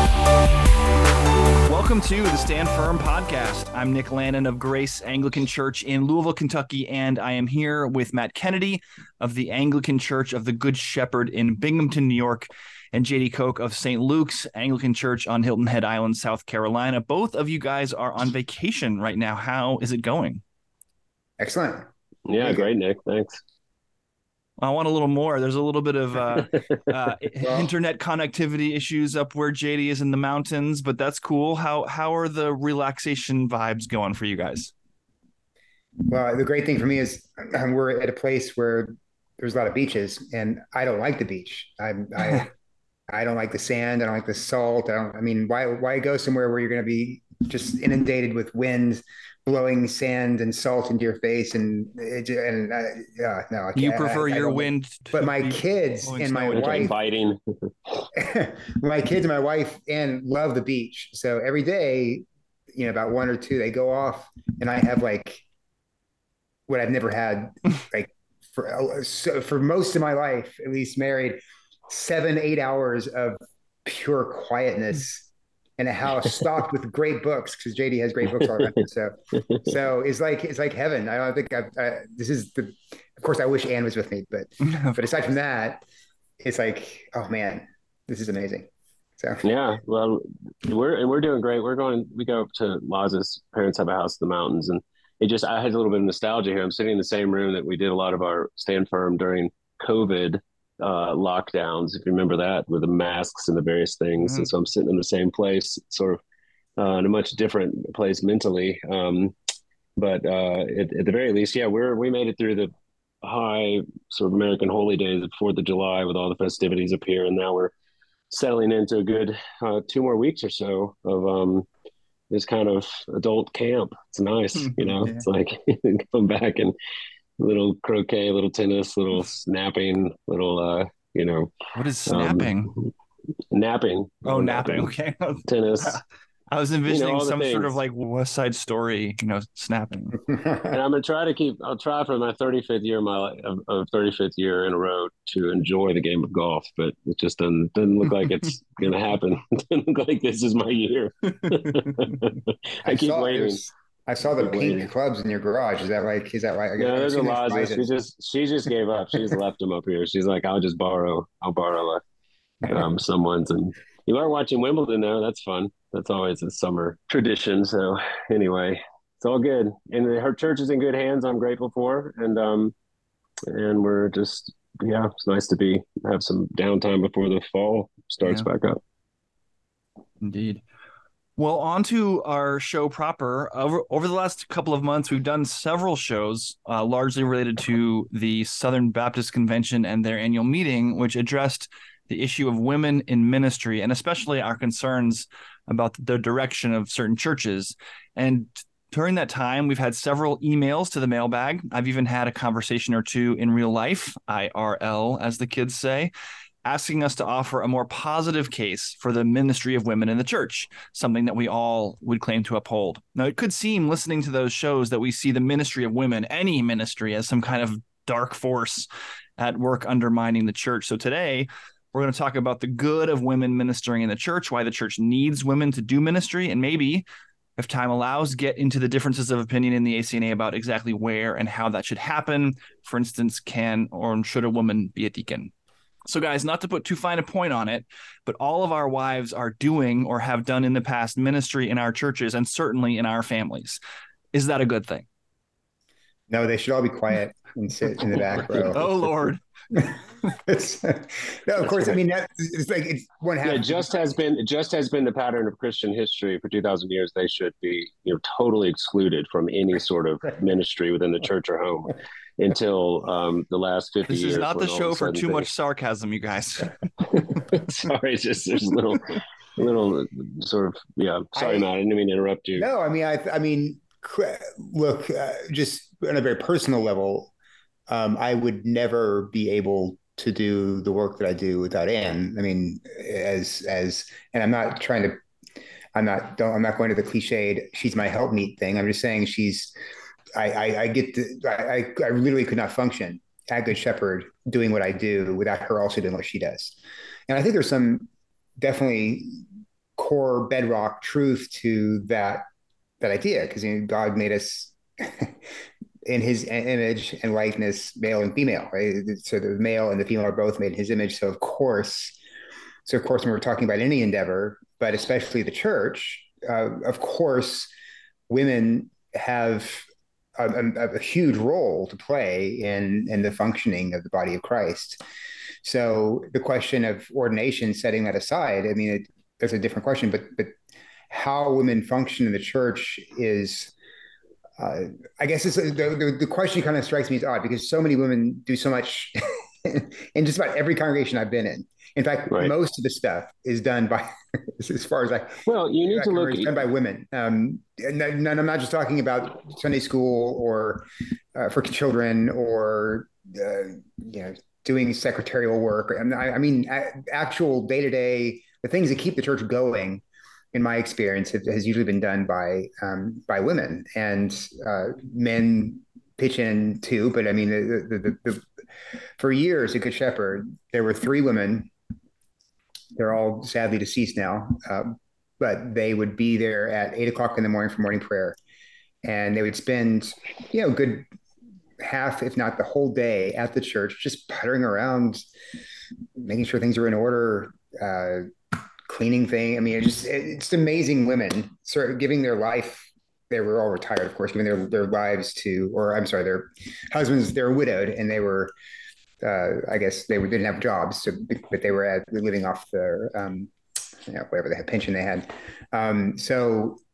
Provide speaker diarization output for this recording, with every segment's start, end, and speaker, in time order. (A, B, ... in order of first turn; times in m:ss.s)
0:01.7-0:20.4 A
0:21.4-0:21.9 B
0:22.3-0:23.4 C
0:22.4-0:22.7 B
0:24.6-0:34.7 A
0:27.4-0:27.7 B
0:36.1-0:42.5 B
0:43.1-0:56.9 B
0:53.8-0:56.9 A
0:56.5-0:57.7 C
0:58.1-1:05.4 B
1:06.7-1:25.8 B
1:26.4-1:29.4 B
1:29.4-1:46.2 C
1:44.2-1:44.5 A
1:46.8-1:49.4 C
1:50.0-1:52.7 C
1:53.2-1:57.7 C
1:58.3-2:01.7 C
2:02.3-2:06.7 C
2:04.7-2:05.2 A
2:07.4-2:11.5 C
2:11.8-2:12.7 A
2:12.1-2:12.9 C
2:13.5-2:14.9 C
2:14.2-2:20.2 A
2:15.5-2:16.0 C
2:16.9-2:17.8 C
2:20.6-2:33.6 C
2:32.8-2:37.9 B
2:34.4-2:34.9 C
2:36.8-2:42.0 C
2:42.7-2:52.7 C
2:53.5-2:58.8 C
3:00.2-3:00.6 A
3:01.4-3:26.1 A
3:26.6-3:38.9 A
3:39.4-3:47.0 A
3:47.6-3:55.5 A
3:56.0-4:03.8 A
4:04.3-4:05.0 A
4:06.3-4:09.0 B
4:08.4-4:09.4 A
4:10.5-4:14.0 B
4:13.4-4:25.5 C
4:24.1-4:26.8 A
4:27.1-4:32.7 C
4:31.4-4:31.7 B
4:32.6-4:37.3 B
4:37.9-4:45.2 B
4:46.0-4:49.7 B
4:50.4-4:56.8 B
4:57.3-4:59.4 B
5:00.0-5:02.4 B
5:03.0-5:05.4 B
5:06.1-5:12.2 B
5:12.9-5:17.7 B
5:18.3-5:19.8 B
5:20.4-5:25.0 B
5:25.6-5:30.5 B
5:31.1-5:33.7 B
5:34.6-6:08.5 B
5:45.5-5:46.6 C
6:09.2-6:11.7 B
6:13.0-6:18.4 B
6:19.0-6:21.1 B
6:21.8-6:25.3 B
6:26.2-6:28.3 B
6:28.9-6:38.5 B
6:39.2-6:43.5 B
6:44.1-6:46.8 B